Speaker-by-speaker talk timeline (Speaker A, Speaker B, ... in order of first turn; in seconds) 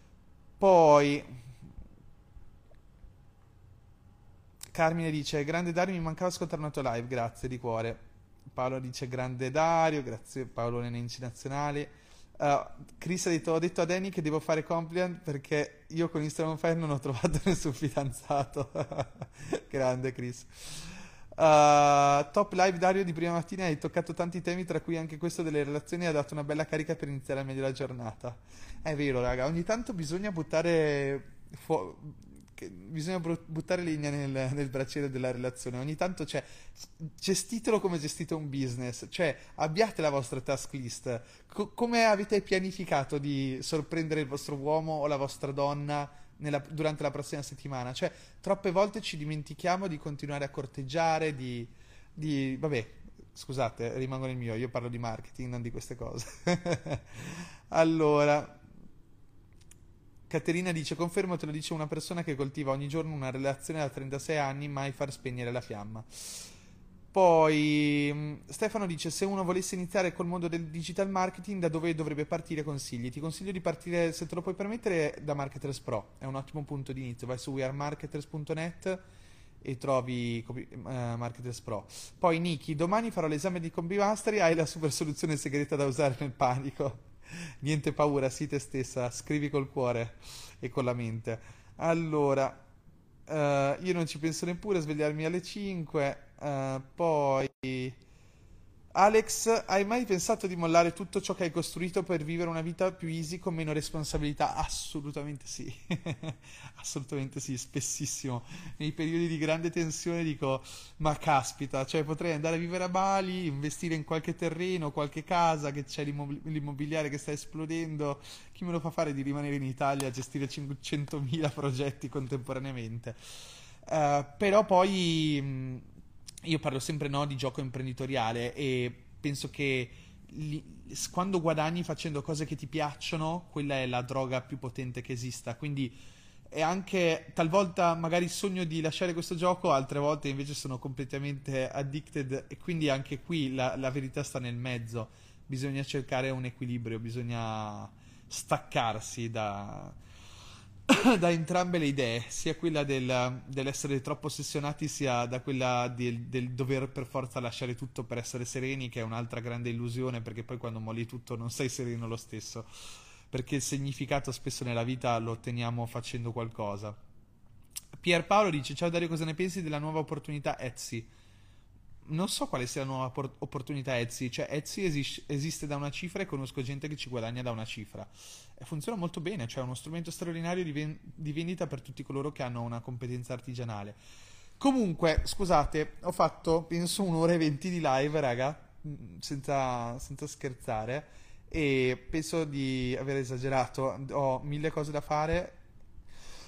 Speaker A: 0.6-1.3, 4.7-8.0, 8.5-58.6, 60.3-66.5, 67.1-79.0, 79.6-92.6, 93.3-98.0, 99.0-123.2, 123.9-125.9, 126.4-136.0, 136.5-150.0, 150.9-162.7, 163.3-167.0, 167.9-171.1, 172.1-184.0, 184.6-195.6